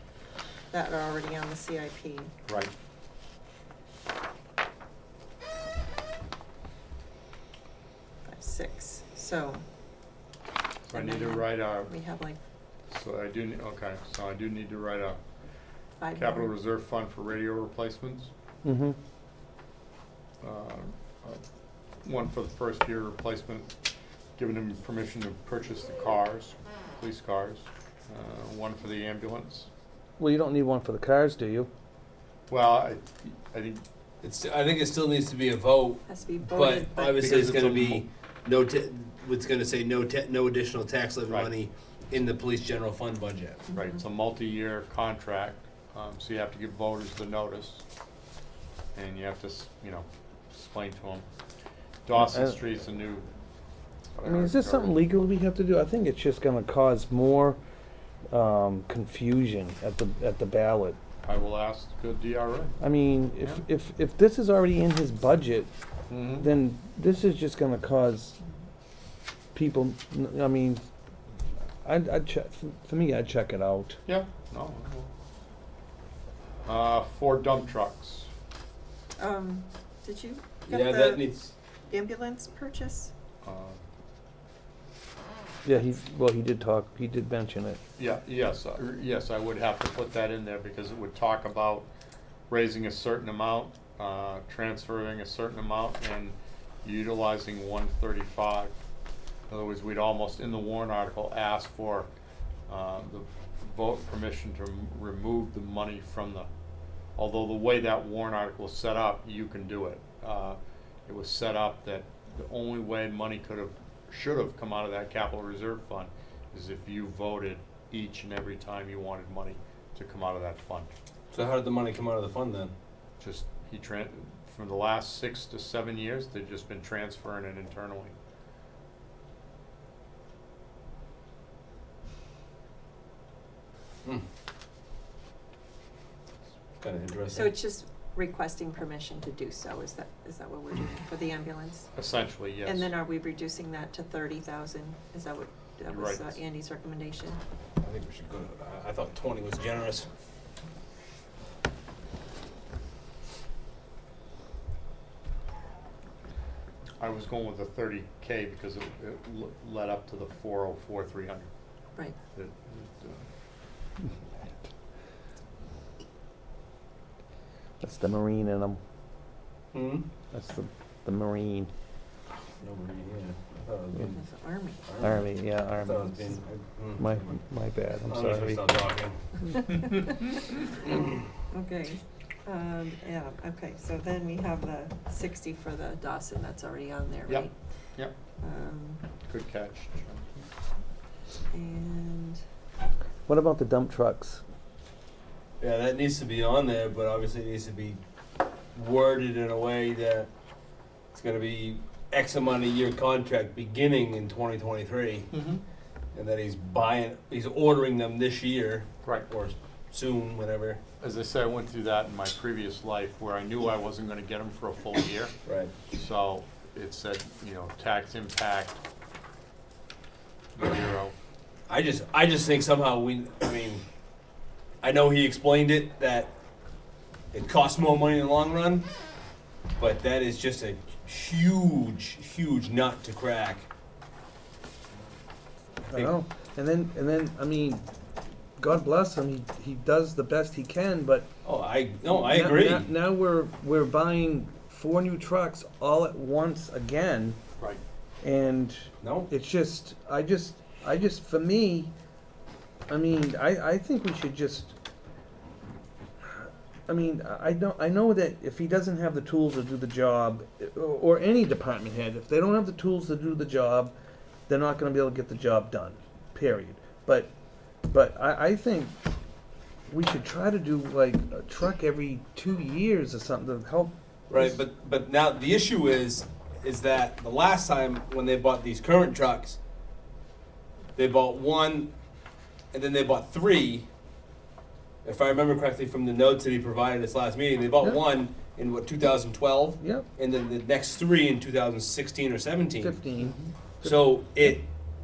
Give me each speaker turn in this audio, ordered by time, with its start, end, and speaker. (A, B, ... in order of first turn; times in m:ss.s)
0:00.7-0:02.3 A
0:02.5-0:02.7 B
0:08.2-0:09.6 A
0:10.8-0:11.9 B
0:10.9-0:12.4 A
0:12.9-0:15.2 B
0:16.0-0:16.5 A
0:16.1-0:18.3 B
0:18.6-0:19.0 C
0:20.4-0:21.4 B
0:22.0-0:23.7 B
0:24.4-0:29.7 B
0:30.2-0:31.7 C
0:32.5-0:33.8 B
0:34.2-0:43.6 D
0:36.1-0:37.4 A
0:37.1-0:38.0 B
0:41.2-0:41.5 B
0:43.7-0:44.0 A
0:43.7-0:47.8 B
0:48.9-0:51.3 B
0:52.0-0:53.3 B
0:52.1-0:52.6 C
0:54.1-0:55.0 B
0:54.2-0:57.6 C
0:58.3-1:01.0 C
1:01.2-1:02.8 B
1:02.8-1:05.7 C
1:06.1-1:06.5 B
1:06.4-1:08.4 C
1:09.5-1:10.9 C
1:11.8-1:14.0 C
1:14.1-1:15.1 B
1:16.6-1:18.3 B
1:19.2-1:21.2 A
1:20.7-1:21.5 D
1:21.8-1:23.1 A
1:23.4-1:23.8 B
1:25.6-1:27.8 C
1:28.0-1:31.9 B
1:32.5-1:38.7 B
1:39.5-1:42.1 B
1:42.7-1:46.5 B
1:47.2-2:00.9 B
2:01.3-2:02.7 D
2:03.2-2:08.1 B
2:16.8-2:17.5 D
2:17.3-2:21.9 A
2:22.0-2:22.9 B
2:22.6-2:27.4 A
2:25.9-2:26.4 B
2:27.8-2:30.1 D
2:37.0-2:41.5 B
2:42.3-2:43.2 B
2:47.8-2:48.8 C
2:49.7-2:50.1 D
2:50.3-2:51.7 C
2:52.6-2:54.2 D
2:54.0-2:54.8 A
2:54.8-2:57.3 D
2:55.0-2:56.2 C
2:57.0-2:58.6 C
2:58.0-2:59.2 D
2:59.5-3:00.7 A
3:01.5-3:07.6 A
3:07.3-3:08.1 B
3:08.4-3:09.0 A
3:09.3-3:10.5 B
3:11.5-3:12.4 A
3:13.3-3:14.4 C
3:15.6-3:18.0 D
3:18.7-3:20.3 D
3:21.1-3:25.3 D
3:25.3-3:25.6 B
3:26.1-3:30.8 D
3:31.0-3:35.3 B
3:35.4-3:35.7 D
3:35.9-3:38.8 B
3:40.6-3:41.1 B
3:41.7-3:43.8 D
3:44.8-3:46.3 D
3:47.3-3:48.9 D
3:49.8-3:53.7 D
3:55.9-3:57.9 C
3:58.6-4:01.3 C
4:01.4-4:02.9 D
4:02.1-4:07.4 C
4:08.2-4:11.9 C
4:09.0-4:09.3 D
4:12.9-4:14.8 C
4:16.2-4:23.9 C
4:24.5-4:27.3 C
4:27.9-4:29.0 C
4:29.9-4:34.5 C
4:34.3-4:39.6 D
4:41.0-4:41.9 D
4:42.7-4:43.9 D
4:45.0-4:53.0 D
4:49.8-4:50.1 C
4:52.8-4:54.0 C
4:53.8-4:54.7 D